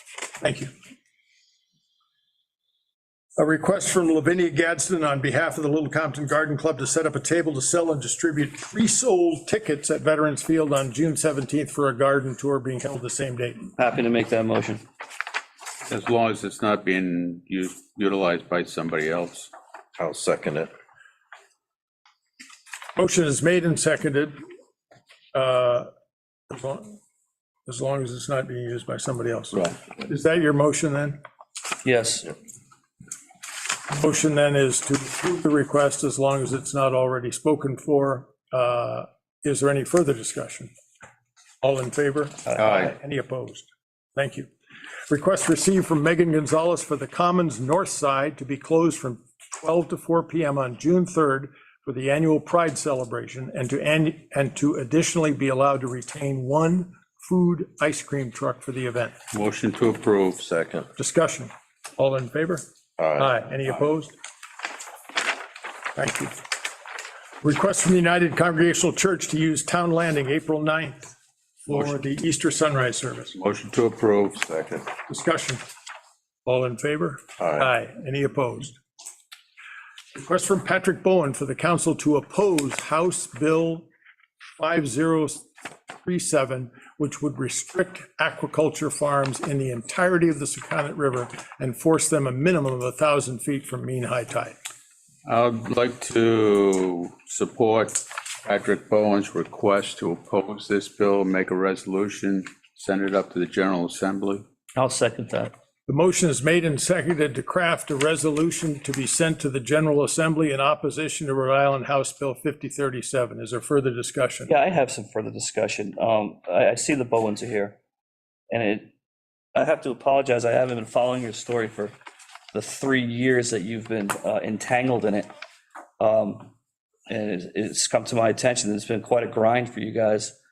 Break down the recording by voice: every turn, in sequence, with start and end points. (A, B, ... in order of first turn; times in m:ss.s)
0:00.4-0:00.7 A
0:03.4-0:13.7 A
0:13.8-0:14.8 B
0:15.9-0:19.5 C
0:20.0-0:20.7 D
0:23.0-0:24.4 A
0:25.3-0:25.9 A
0:26.5-0:27.0 A
0:27.7-0:31.2 A
0:31.8-0:32.3 B
0:33.9-0:40.7 A
0:41.6-0:44.5 A
0:42.6-0:42.9 C
0:45.1-0:59.2 A
0:59.3-1:00.4 C
1:00.4-1:00.9 D
1:01.0-1:02.6 A
1:03.0-1:03.4 D
1:03.2-1:04.1 A
1:06.0-1:06.4 A
1:07.4-1:13.3 A
1:13.3-1:14.4 C
1:14.4-1:14.8 D
1:15.1-1:15.6 A
1:16.4-1:18.8 A
1:17.4-1:17.7 D
1:20.2-1:23.9 A
1:24.6-1:34.6 A
1:35.2-1:44.4 C
1:44.8-1:45.5 B
1:45.9-1:54.5 A
1:54.5-1:57.8 B
1:58.5-1:58.9 B
1:59.5-2:02.0 B
2:02.5-2:05.3 B
2:06.0-2:06.5 B
2:07.1-2:10.4 B